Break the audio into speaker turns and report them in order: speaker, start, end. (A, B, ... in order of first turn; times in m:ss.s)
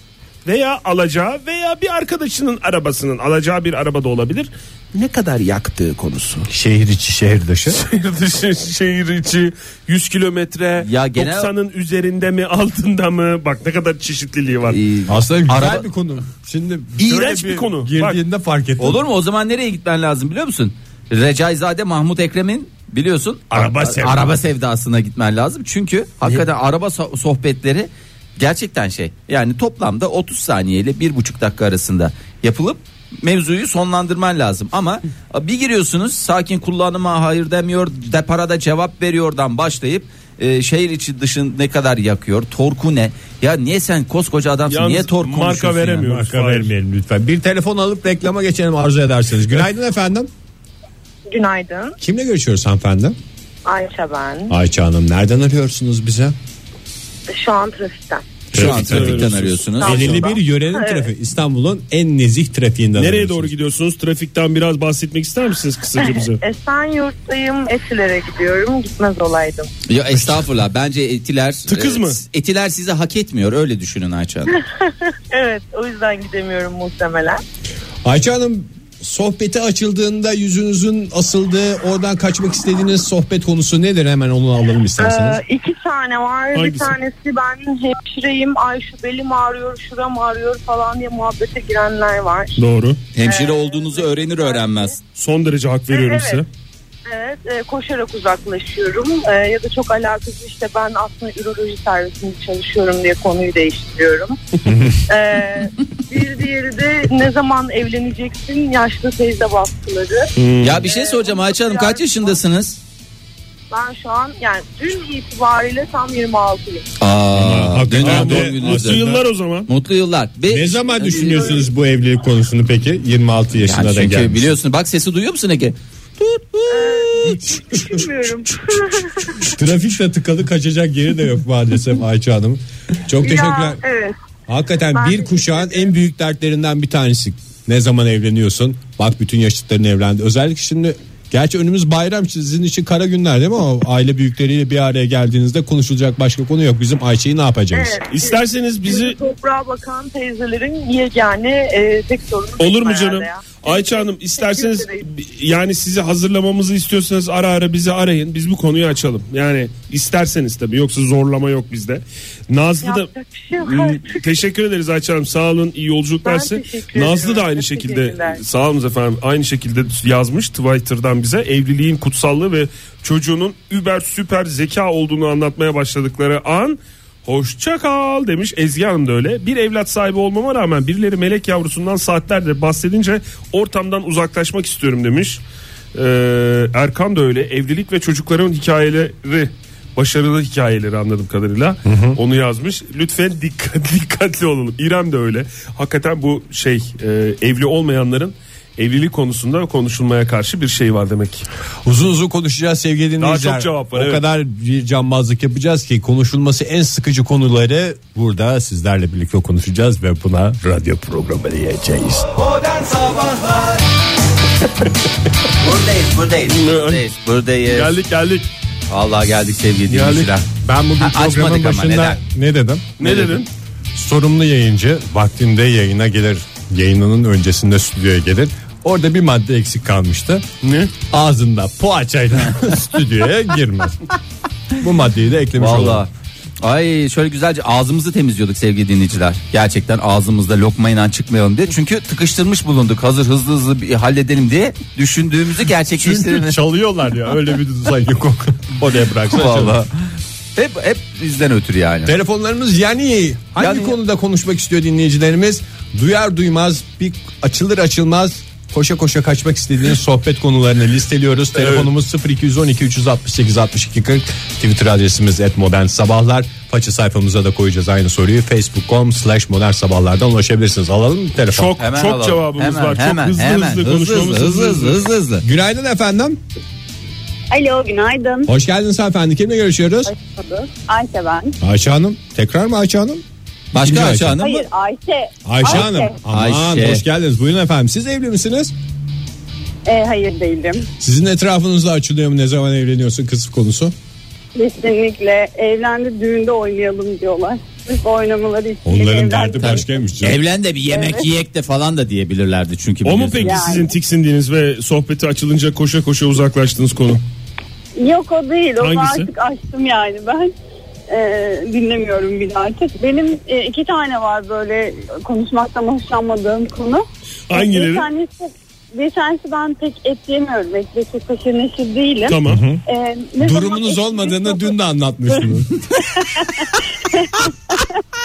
0:00.4-0:06.5 A
0:06.5-0:07.8 B
0:07.7-0:14.8 A
0:10.8-0:11.5 C
0:14.7-0:15.8 C
0:15.1-0:19.0 B
0:17.0-0:18.2 A
0:18.8-0:46.1 C
0:23.5-0:24.3 B
0:44.7-0:46.7 A
0:46.0-0:50.3 B
0:51.3-0:52.0 D
0:52.0-0:53.2 B
0:53.6-0:54.5 D
0:54.5-0:56.3 B
0:57.3-0:58.2 D
0:58.5-1:00.2 C
0:58.5-1:03.5 B
0:58.5-0:59.7 A
0:59.7-1:01.1 D
1:03.0-1:06.4 A
1:06.0-1:09.7 D
1:09.9-1:14.6 C
1:10.2-1:10.4 B
1:11.7-1:12.2 A
1:14.5-1:17.4 D
1:18.0-1:25.4 B
1:25.0-1:32.6 D
1:26.5-1:26.9 A
1:32.6-1:33.0 A
1:33.1-1:35.0 C
1:33.2-1:34.9 D
1:35.1-1:36.5 A
1:35.9-1:36.4 D
1:37.1-1:44.4 D
1:44.7-1:45.0 B
1:45.1-1:52.4 D
1:50.4-1:50.8 A
1:50.6-1:52.8 C
1:53.7-1:56.8 D
1:57.0-1:59.1 C
1:57.4-1:59.2 B
1:58.0-1:59.7 A
1:59.7-2:01.7 C
2:00.5-2:04.5 B
2:03.6-2:07.4 C
2:06.7-2:09.5 D
2:07.5-2:07.8 B
2:09.4-2:13.8 B
2:13.2-2:14.2 D
2:14.5-2:28.0 B
2:14.9-2:15.8 D
2:27.7-2:35.1 D
2:28.1-2:29.2 A
2:32.6-3:05.4 A
2:42.8-2:44.3 D
2:46.2-2:48.4 D
3:05.9-3:21.4 A
3:11.8-3:12.2 B
3:21.8-3:32.3 B
3:23.2-3:24.2 A
3:32.4-3:33.8 C
3:35.5-3:37.9 C
3:36.5-3:37.0 A
3:37.6-3:38.5 A
3:38.9-3:40.5 C
3:39.9-3:40.3 A
3:40.6-3:43.0 B
3:41.0-3:42.2 C
3:43.0-3:43.5 A
3:43.0-3:43.4 C
3:43.9-3:50.4 B
3:50.6-3:50.9 A
3:51.1-3:54.0 B
3:54.8-3:56.0 B
3:55.6-3:56.1 C
3:56.6-4:06.6 C
4:06.0-4:09.8 B
4:09.3-4:09.9 C
4:10.6-4:12.1 C
4:12.0-4:31.7 B
4:13.6-4:14.0 C
4:21.6-4:21.9 A
4:31.5-4:35.0 A
4:31.8-4:35.4 C
4:35.4-4:36.4 B
4:37.5-4:38.5 E
4:38.4-4:40.1 B
4:40.1-4:41.6 E
4:41.6-4:43.2 B
4:43.7-4:44.7 C
4:43.8-4:44.4 B
4:44.4-4:46.2 E
4:45.4-4:48.7 B
4:46.3-4:47.0 C
4:49.8-4:50.9 E
4:51.0-4:53.9 B
4:54.5-4:59.8 E
4:58.8-5:00.4 B
4:59.6-5:03.7 C
5:00.9-5:01.3 E
5:03.0-5:07.2 A
5:03.4-5:03.9 E
5:08.0-5:10.5 E
5:08.8-5:09.3 A
5:11.1-5:24.7 E
5:17.5-5:18.1 A
5:22.3-5:22.6 A
5:22.5-5:22.8 B
5:23.4-5:25.8 B
5:26.1-5:27.9 E